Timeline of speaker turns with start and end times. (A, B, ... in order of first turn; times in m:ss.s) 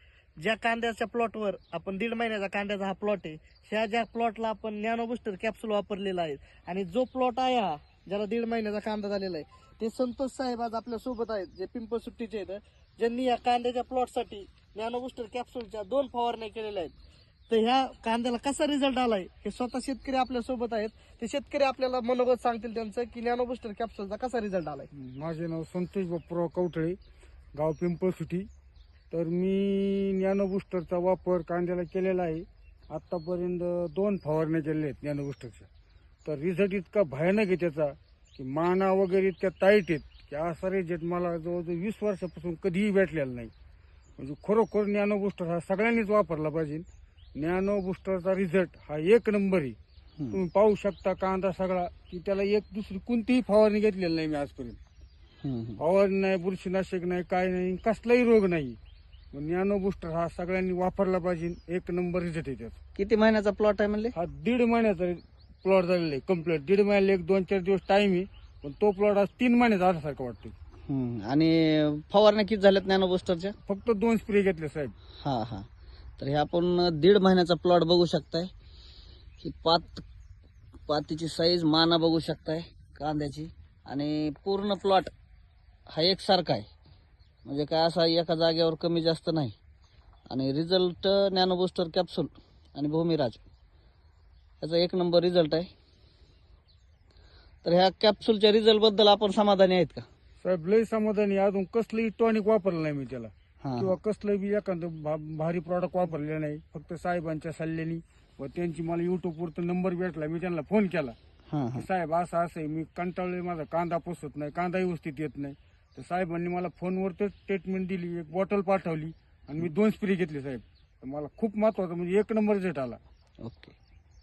0:00.4-0:16.9 A
0:17.5-0:24.9 A
0:24.9-0:27.0 B
0:27.6-0:28.5 B
0:29.1-0:35.7 B
0:36.2-0:43.5 B
0:44.2-0:46.8 B
0:47.4-0:49.8 B
0:50.3-0:54.8 B
0:55.4-0:55.8 C
0:55.8-0:58.8 B
0:59.3-1:02.8 B
1:02.9-1:04.1 C
1:04.1-1:10.5 B
1:10.9-1:13.5 C
1:13.6-1:14.9 B
1:15.2-1:15.6 C
1:16.2-1:18.5 C
1:19.4-1:20.0 C
1:20.9-1:25.1 C
1:25.9-1:26.7 C
1:27.4-1:29.5 C
1:30.3-1:33.4 C
1:34.6-1:35.7 C
1:37.6-1:40.0 C
1:40.4-1:51.2 B
1:43.6-1:44.0 C
1:51.5-1:51.8 C
1:51.7-2:03.0 B
2:03.4-2:03.7 C